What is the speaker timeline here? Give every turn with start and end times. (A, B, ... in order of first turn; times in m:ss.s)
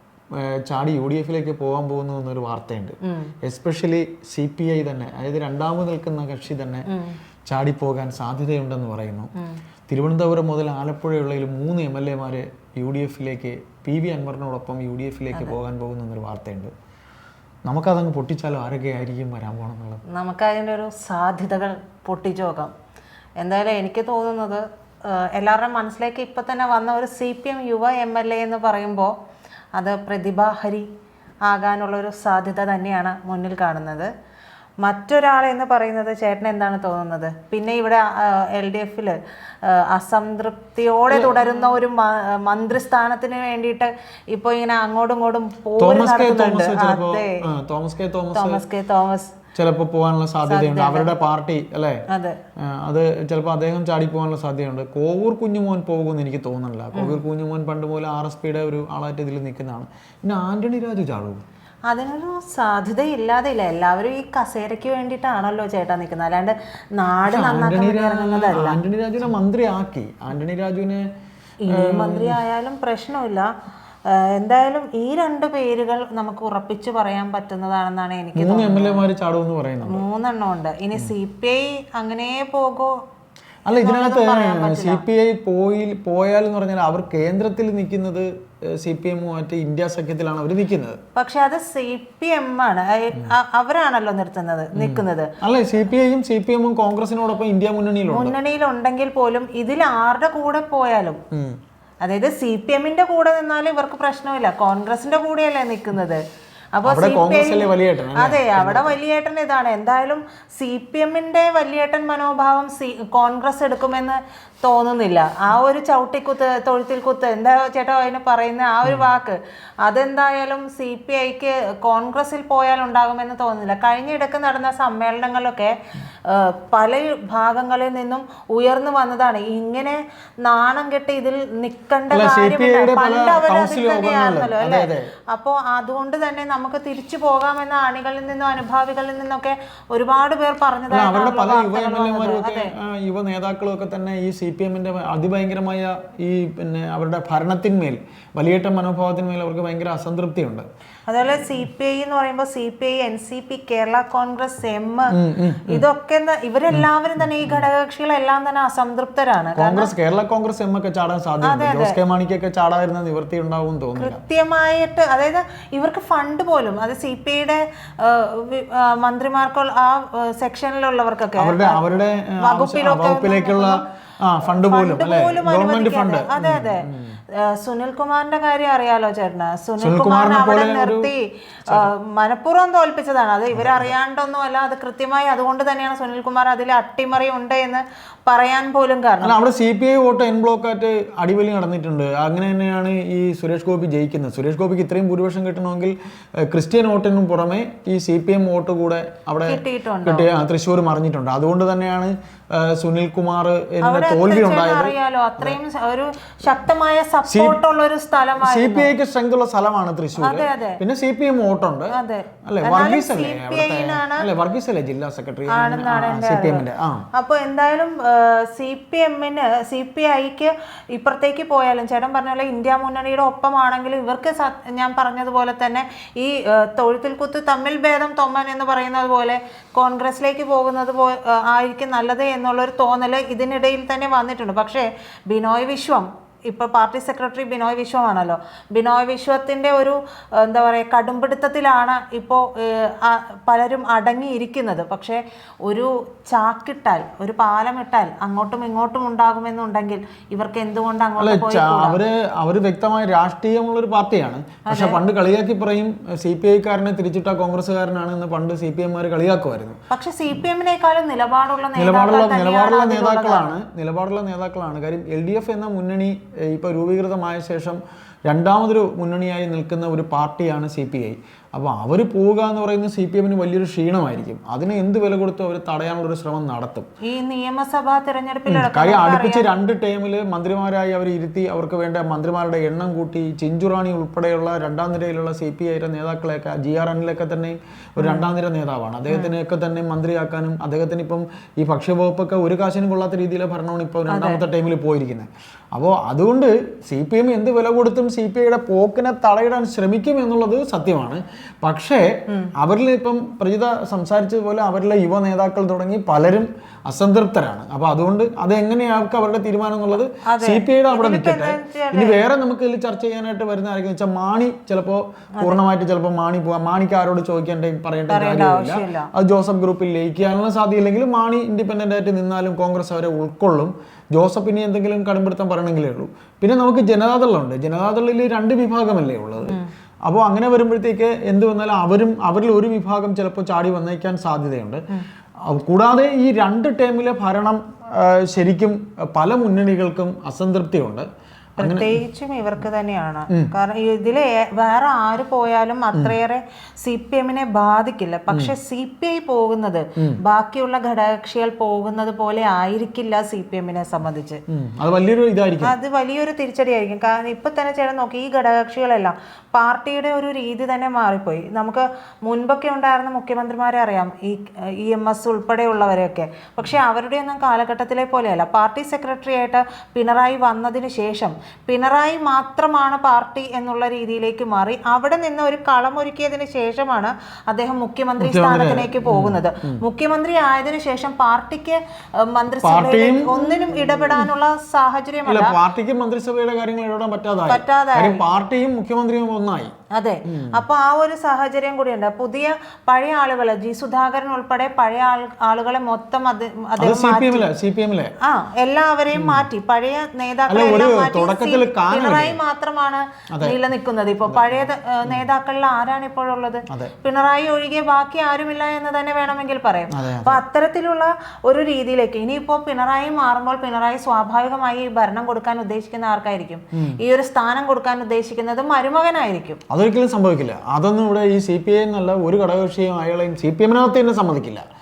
0:00.3-0:06.9 A
0:03.0-0:03.3 B
0:06.9-0:07.2 B
0:07.5-0:09.3 A
0:09.9-0:16.7 A
0:17.6-0:20.0 A
0:20.1-0:22.7 B
0:23.4-0:29.1 B
0:29.7-0:30.9 B
0:31.4-0:34.1 B
0:34.8-0:47.4 B
0:41.1-0:41.7 A
0:45.8-0:48.6 A
0:48.3-0:49.4 B
0:49.5-0:52.0 A
0:50.5-0:51.1 B
0:52.1-0:52.4 B
0:52.6-1:01.4 A
0:56.9-0:57.2 B
1:01.9-1:08.8 B
1:07.3-1:11.1 A
1:11.6-1:13.5 B
1:11.7-1:12.4 A
1:14.0-1:19.1 B
1:18.4-1:20.0 A
1:19.8-1:22.9 B
1:23.6-1:31.0 A
1:23.8-1:25.0 B
1:31.1-1:35.3 B
1:34.7-1:38.4 A
1:38.1-1:41.2 B
1:42.0-1:46.2 B
1:46.8-2:22.7 B
1:46.8-1:49.0 A
2:12.1-2:15.1 A
2:20.9-2:30.6 A
2:31.1-2:39.9 B
2:35.1-2:35.8 A
2:39.6-2:44.2 A
2:41.4-2:42.0 B
2:44.0-2:51.8 B
2:51.4-2:57.2 A
2:52.4-2:53.8 B
2:54.4-3:09.3 B
2:59.8-3:01.1 A
3:03.5-3:03.9 A
3:09.2-3:25.6 A
3:19.4-3:20.3 B
3:23.8-3:28.9 B
3:27.3-3:27.6 A
3:28.4-3:31.9 A
3:30.2-3:30.8 B
3:31.9-3:34.2 B
3:32.5-3:37.0 A
3:35.5-4:12.0 B
4:11.2-4:19.8 A
4:14.7-4:15.0 B
4:19.9-4:23.5 B
4:21.8-4:36.9 A
4:37.0-4:39.5 B
4:38.5-5:34.8 A
4:48.0-4:48.3 B
4:54.1-4:54.4 B
5:10.2-5:12.2 B
5:18.1-5:19.1 B
5:35.4-5:41.1 A
5:41.6-5:54.4 B
5:41.6-5:42.0 A
5:54.5-5:55.7 A
5:55.6-6:25.5 B
6:18.2-6:19.8 A
6:22.6-6:24.3 A
6:25.2-6:29.7 A
6:27.5-6:28.2 B
6:29.9-6:37.4 B
6:30.2-6:30.6 A
6:36.8-6:38.1 A
6:38.2-6:59.6 B
6:39.1-6:39.4 A
6:40.5-6:42.4 A
6:43.3-6:43.6 A
6:44.3-6:45.2 A
6:46.7-6:46.9 A
6:49.9-6:50.4 A
6:59.7-7:04.6 A